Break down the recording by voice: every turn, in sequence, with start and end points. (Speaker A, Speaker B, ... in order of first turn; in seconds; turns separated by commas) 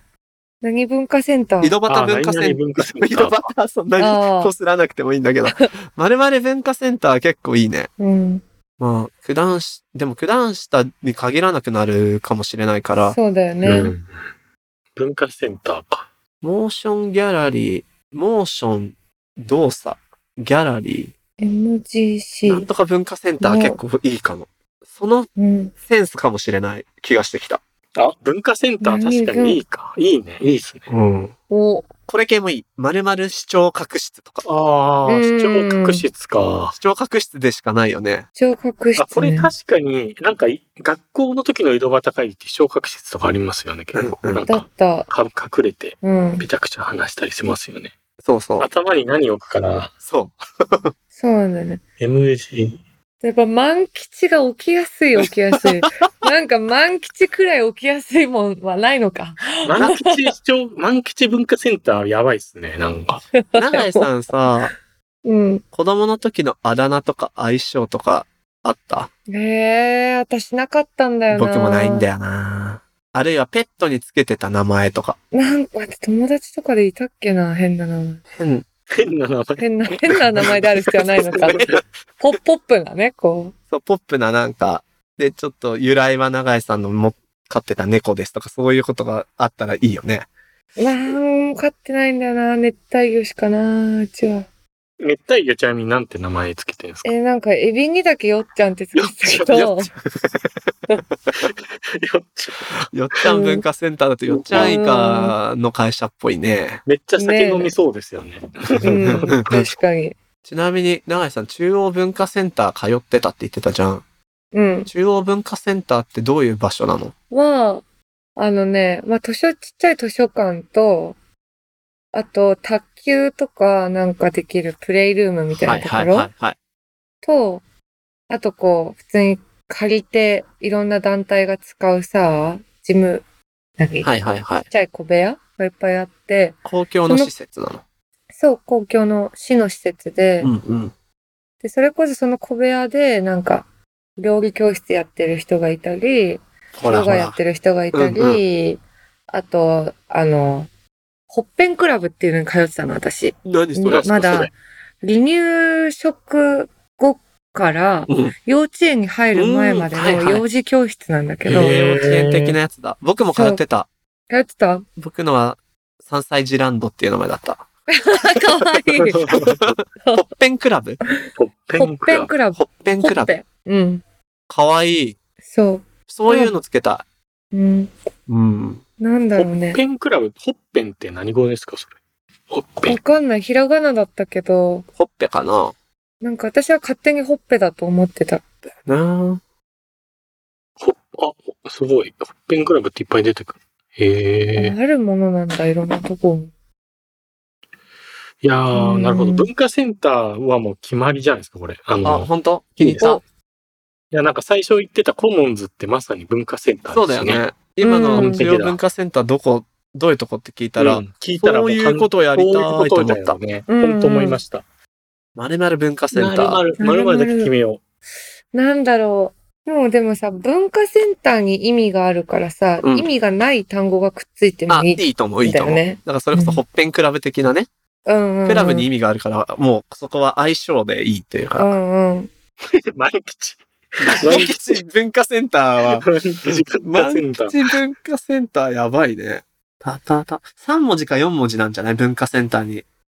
Speaker A: 0.6-1.8, Speaker B: 1.6-7.9, Speaker C: 1.9-3.4, Speaker A: 4.0-4.5, Speaker A: 8.0-8.4, Speaker B: 8.8-13.2, Speaker A: 13.0-13.9, Speaker C: 13.6-14.1, Speaker C: 14.9-16.1, Speaker B: 16.4-21.1, Speaker A: 21.4-22.7, Speaker B: 22.4-25.3, Speaker A: 23.4-23.8, Speaker A: 25.4-25.7, Speaker B: 25.9-27.6, Speaker C: 27.9-30.9, Speaker A: 28.8-29.6, Speaker B: 30.9-31.3, Speaker A: 31.5-31.9, Speaker B: 32.1-34.5, Speaker C: 34.5-36.8, Speaker A: 35.0-36.0, Speaker B: 36.8-38.2, Speaker A: 38.4-39.5, Speaker C: 39.0-47.9, Speaker B: 43.9-44.4, Speaker A: 44.5-45.1, Speaker A: 46.0-46.5, Speaker B: 48.2-48.7, Speaker C: 48.6-49.9, Speaker B: 50.1-50.9, Speaker A: 51.2-51.8, Speaker C: 52.0-52.8, Speaker A: 53.2-60.3, Speaker C: 59.6-63.2, Speaker A: 63.4-64.1, Speaker B: 63.5-64.7, Speaker A: 65.2-65.6, Speaker B: 65.7-69.1, Speaker A: 69.3-72.0, Speaker B: 71.3-75.2, Speaker A: 75.3-78.2, Speaker B: 78.3-78.7, Speaker C: 78.9-81.8, Speaker A: 79.6-83.5, Speaker B: 81.4-81.8, Speaker B: 83.7-90.3, Speaker A: 90.8-94.5, Speaker C: 95.0-97.1, Speaker A: 97.0-99.9, Speaker C: 99.0-99.6, Speaker B: 99.5-100.3, Speaker C: 101.4-103.2, Speaker B: 102.9-106.8, Speaker A: 103.2-103.6, Speaker C: 104.3-104.8, Speaker A: 104.5-105.3, Speaker C: 106.9-109.6, Speaker A: 107.2-107.7, Speaker B: 108.8-109.6, Speaker A: 108.8-110.1, Speaker B: 110.5-114.0, Speaker A: 114.5-114.9, Speaker B: 114.9-117.1, Speaker A: 117.3-117.8, Speaker A: 118.4-121.2, Speaker A: 122.1-126.3, Speaker B: 125.6-126.6, Speaker A: 127.2-127.6, Speaker A: 128.3-133.2, Speaker A: 133.8-134.1, Speaker B: 134.0-134.7, Speaker A: 134.7-137.3, Speaker B: 136.6-137.8, Speaker A: 138.4-140.5, Speaker B: 140.4-140.9, Speaker A: 141.6-143.7, Speaker A: 144.2-148.8, Speaker B: 146.8-147.4, Speaker B: 147.9-148.4, Speaker A: 149.3-150.7, Speaker A: 151.3-154.5, Speaker B: 153.4-154.5, Speaker C: 153.9-154.5, Speaker A: 155.0-161.8, Speaker B: 158.1-158.3, Speaker B: 159.3-160.4, Speaker C: 161.4-162.6, Speaker B: 161.6-163.9, Speaker A: 163.3-163.6, Speaker A: 164.3-164.8, Speaker B: 165.0-167.6, Speaker A: 167.9-169.3, Speaker B: 168.4-171.0, Speaker C: 168.9-169.6, Speaker A: 171.1-174.0, Speaker C: 171.4-172.3, Speaker B: 172.6-173.3, Speaker B: 174.5-175.2, Speaker A: 175.5-176.6, Speaker B: 176.1-177.0, Speaker A: 177.5-177.9, Speaker B: 178.3-178.8, Speaker A: 179.0-179.8, Speaker C: 179.4-181.9, Speaker C: 182.5-183.0, Speaker A: 182.9-184.9, Speaker B: 184.9-185.7, Speaker A: 186.2-188.4, Speaker B: 188.8-189.4, Speaker C: 190.8-194.8, Speaker A: 194.6-196.5, Speaker C: 198.4-202.3, Speaker A: 198.7-199.5, Speaker B: 202.0-203.2, Speaker C: 202.8-203.2, Speaker C: 204.1-207.4, Speaker B: 206.9-213.4, Speaker A: 207.8-208.5, Speaker C: 208.1-208.8, Speaker C: 210.8-214.6, Speaker A: 213.7-214.4, Speaker B: 215.4-216.6, Speaker C: 216.1-217.8, Speaker A: 216.8-217.5, Speaker A: 218.5-226.6, Speaker B: 222.8-223.1, Speaker B: 224.7-227.7, Speaker A: 228.1-228.9, Speaker B: 228.4-231.8, Speaker A: 231.6-232.3, Speaker C: 232.7-234.8, Speaker B: 234.0-242.8, Speaker C: 235.9-237.7